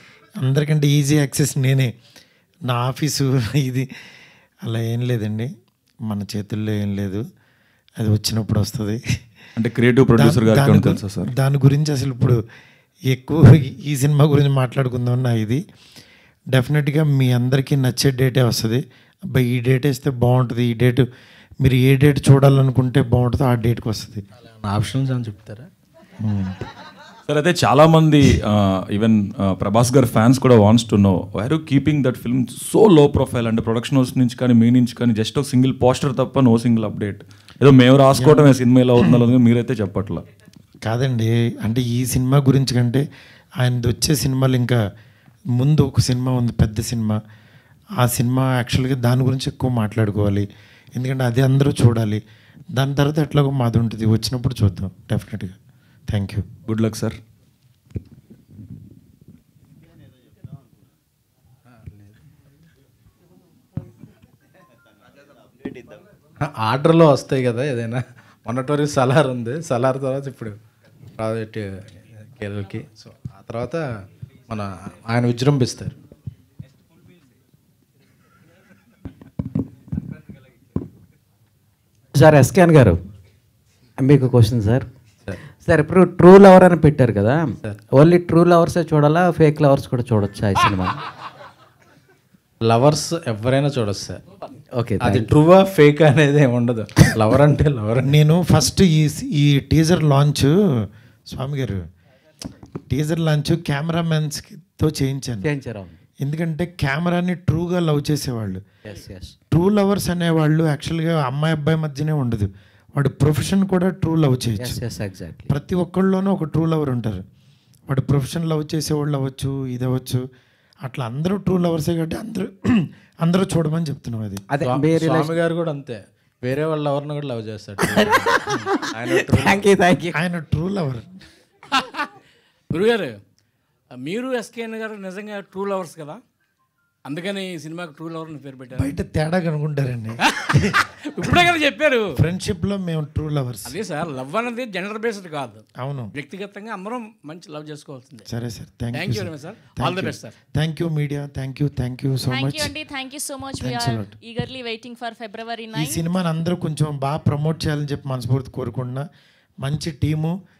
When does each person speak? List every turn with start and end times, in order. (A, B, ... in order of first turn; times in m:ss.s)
0:00.4-0:01.9 A
0:02.7-0:03.9 A
0:04.6-0:05.5 A
0:06.0-0:07.2 A
0:08.0-0:09.0 A
0:09.6-0:11.3 B
0:10.2-0:12.4 A
0:13.1-0:15.6 A
0:16.5-0:21.0 A
0:21.6-0:24.2 A
0:24.6-0:25.7 C
0:26.2-0:26.6 A
0:27.3-0:40.2 B
0:38.1-0:39.2 A
0:40.8-0:43.0 A
0:43.6-0:44.8 A
0:45.6-0:47.2 A
0:48.0-0:52.2 A
0:52.7-0:55.5 A
0:56.1-0:56.4 A
0:56.6-0:57.2 B
1:01.7-1:02.2 C
1:06.4-1:10.5 C
1:11.2-1:13.8 C
1:14.5-1:15.9 C
1:22.1-1:23.0 D
1:24.0-1:24.8 D
1:25.5-1:31.0 D
1:32.6-1:34.2 C
1:34.7-1:35.3 D
1:35.0-1:38.1 C
1:38.0-1:40.5 A
1:41.3-1:41.8 A
1:42.9-1:45.5 A
1:45.4-1:46.0 D
1:46.2-1:48.6 A
1:48.8-1:49.3 D
1:49.5-1:54.8 A
1:54.6-1:55.5 D
1:55.5-1:57.2 A
1:57.9-2:00.2 A
2:00.8-2:04.4 A
2:04.5-2:05.4 D
2:04.6-2:09.7 C
2:07.8-2:10.2 D
2:10.1-2:11.2 A
2:11.7-2:12.0 E
2:12.7-2:13.1 E
2:13.9-2:16.2 E
2:17.0-2:18.9 E
2:18.8-2:21.5 A
2:20.3-2:22.1 E
2:22.1-2:23.8 A
2:23.6-2:28.2 E
2:25.8-2:26.1 A
2:28.3-2:32.7 A
2:28.9-2:30.3 E
2:32.3-2:36.0 F
2:33.6-2:34.1 A
2:35.7-2:39.1 A
2:39.6-2:40.4 A